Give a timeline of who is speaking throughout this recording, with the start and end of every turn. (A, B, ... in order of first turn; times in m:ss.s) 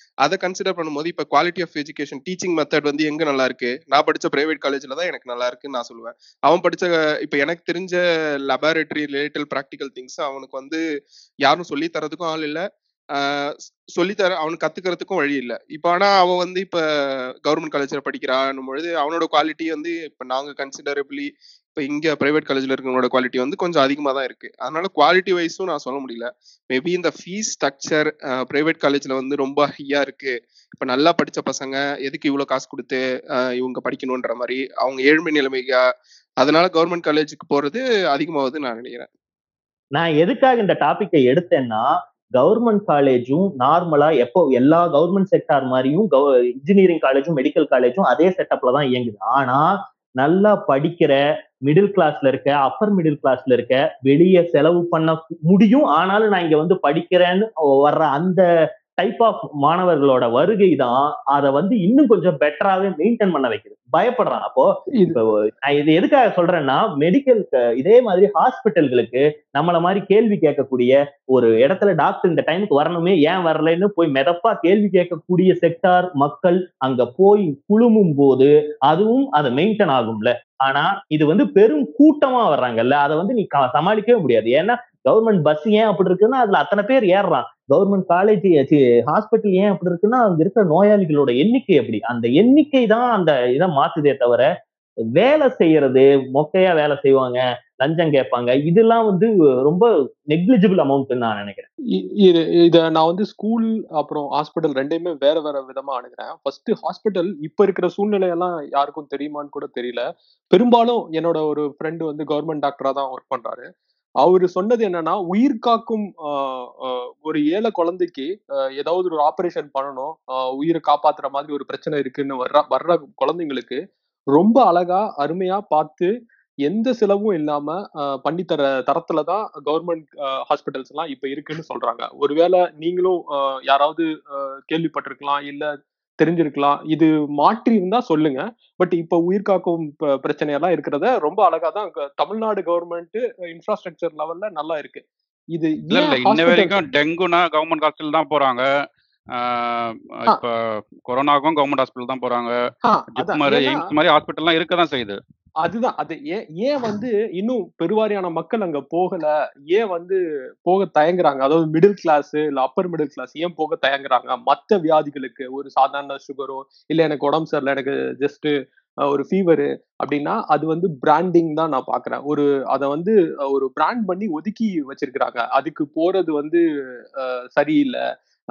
0:00.2-0:08.0 A
0:08.5-0:10.8 A
0:11.4-0:12.6 A
0:13.2-0:16.8 A
0:17.4-0:35.7 A
0:36.4-0:39.1 A
0:40.0-0:49.7 B
0:50.2-0:58.4 B
0:59.0-1:34.5 B
1:35.2-1:41.7 B
1:42.2-1:53.7 C
1:54.2-2:03.8 C
2:04.3-2:06.1 C
2:06.7-2:26.8 C
2:25.9-2:28.6 D
2:29.3-2:32.5 D
2:32.8-2:33.9 C
2:33.2-2:35.2 D
2:35.6-2:48.5 C
2:49.1-2:56.6 C
2:57.2-2:58.0 C